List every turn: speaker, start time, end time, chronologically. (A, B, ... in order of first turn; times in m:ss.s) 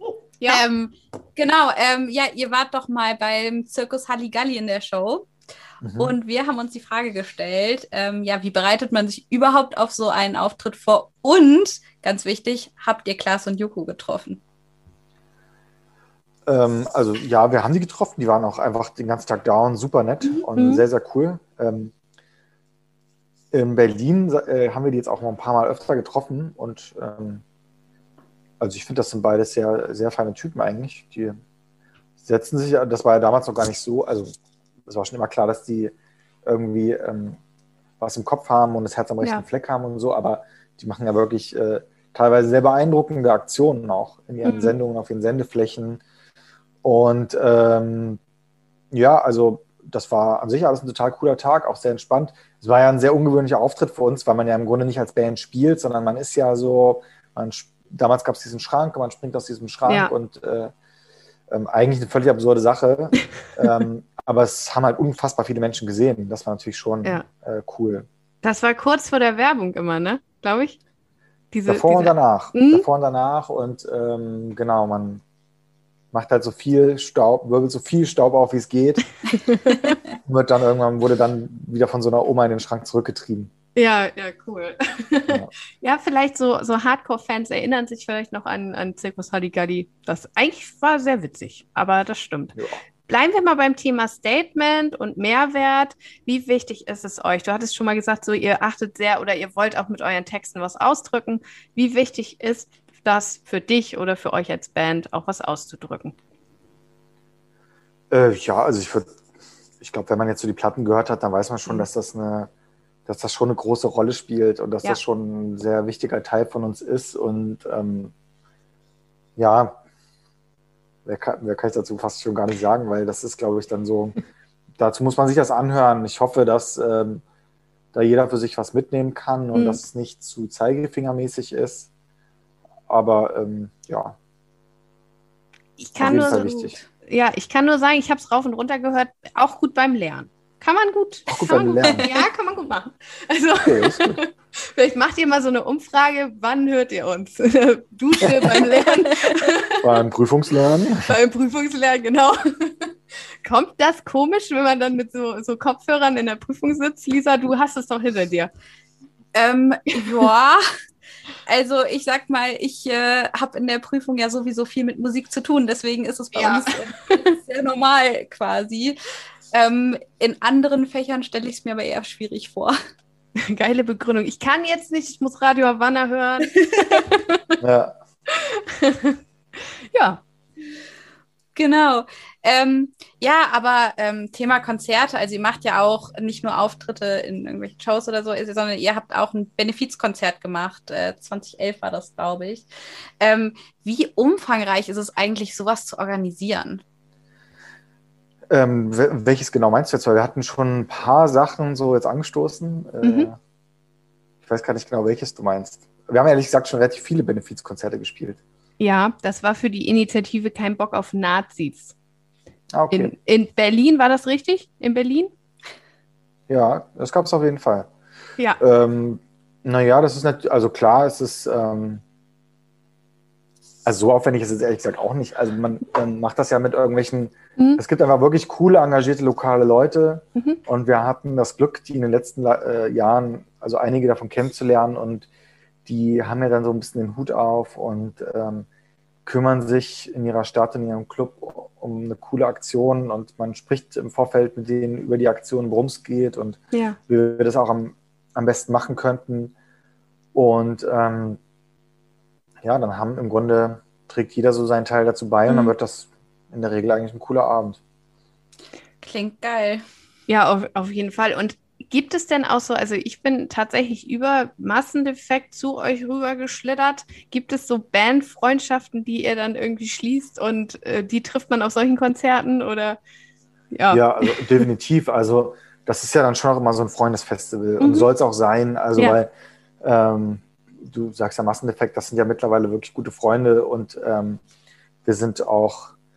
0:00.4-0:00.6 A
0:00.5-0:05.3 B
0:05.8-0:06.2 C
0:06.0-0:14.4 B
0:16.5-0:21.9 C
0:20.5-0:20.8 A
0:23.5-0:27.4 C
0:28.6-0:31.4 C
0:32.2-0:34.3 C
0:34.9-0:35.9 C
0:36.4-0:37.4 C
0:38.0-0:46.0 C
0:44.4-0:44.8 A
0:46.8-0:48.2 C
0:48.9-1:00.7 C
1:01.5-1:08.1 C
1:08.4-1:10.8 A
1:11.5-1:12.8 A
1:11.7-1:15.2 C
1:16.1-1:19.1 C
1:19.5-1:20.0 A
1:20.2-1:23.5 C
1:23.8-1:32.6 A
1:33.1-1:46.2 A
1:48.1-1:49.2 C
1:49.8-1:52.5 C
1:53.1-1:58.1 C
1:59.4-1:59.8 C
2:01.0-2:04.2 C
2:04.8-2:07.2 C
2:07.9-2:11.9 C
2:09.5-2:09.8 A
2:12.9-2:14.2 C
2:15.8-2:29.9 A
2:16.0-2:16.8 C
2:21.3-2:22.1 C
2:21.8-2:22.1 B
2:23.6-2:24.2 C
2:28.4-2:29.4 B
2:29.8-2:31.2 C
2:31.1-2:32.9 A
2:33.4-2:38.5 A
2:39.4-2:40.6 B
2:41.5-2:49.0 B
2:46.4-2:47.2 A
2:49.5-2:52.8 B
2:53.4-2:57.6 A
2:56.6-2:57.0 B
2:57.6-2:58.0 C
2:58.3-3:00.2 A
3:01.6-3:12.7 B
3:13.2-3:16.8 B
3:18.5-3:23.4 C
3:23.0-3:23.3 A
3:24.4-3:28.4 C
3:28.8-3:31.9 A
3:32.7-3:33.1 C
3:32.9-3:35.3 A
3:36.5-3:37.9 C
3:38.6-3:42.0 C
3:43.8-3:55.3 C
3:55.8-3:58.7 C
3:59.2-4:09.5 C
4:06.7-4:07.0 A
4:10.3-4:11.4 C
4:12.6-4:17.8 C
4:15.5-4:15.7 A
4:19.0-4:19.8 B
4:20.3-4:33.0 A
4:33.7-4:34.7 A
4:33.9-4:39.3 C
4:37.8-4:38.1 A
4:39.8-4:44.4 C
4:45.0-4:45.9 C